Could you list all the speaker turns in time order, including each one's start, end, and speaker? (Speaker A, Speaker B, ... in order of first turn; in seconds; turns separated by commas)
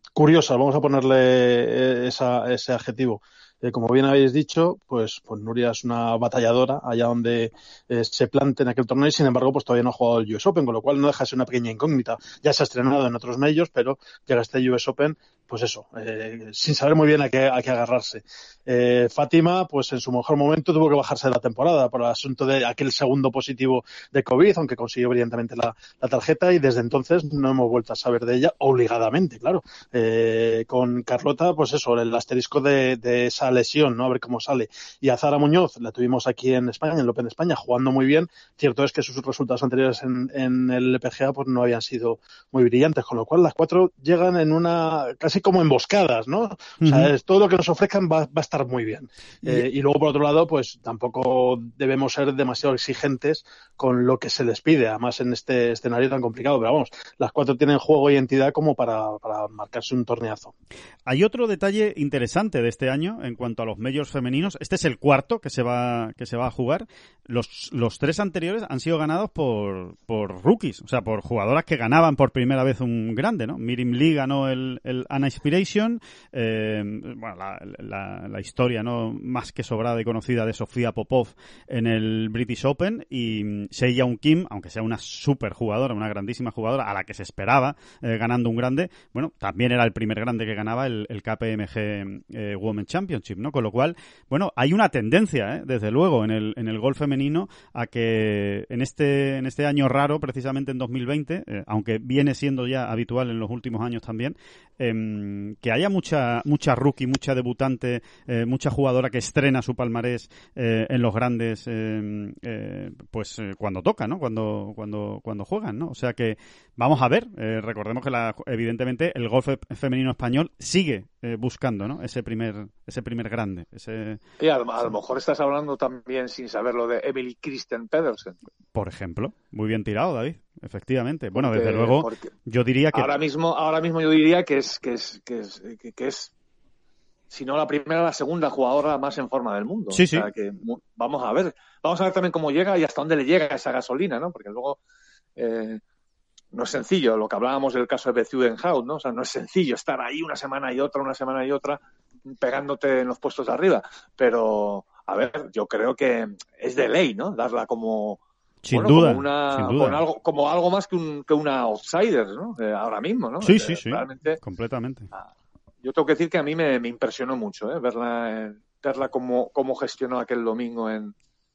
Speaker A: 0.2-60.5, Speaker B: 46.8-47.1, Speaker B: 61.1-124.2, Speaker C: 124.4-128.4, Speaker B: 128.7-133.1, Speaker C: 131.3-132.3, Speaker C: 132.9-136.3, Speaker C: 137.3-144.8, Speaker B: 139.9-140.3, Speaker C: 145.4-145.8, Speaker C: 146.5-164.4, Speaker B: 158.6-160.0, Speaker B: 163.4-165.1, Speaker C: 165.8-171.1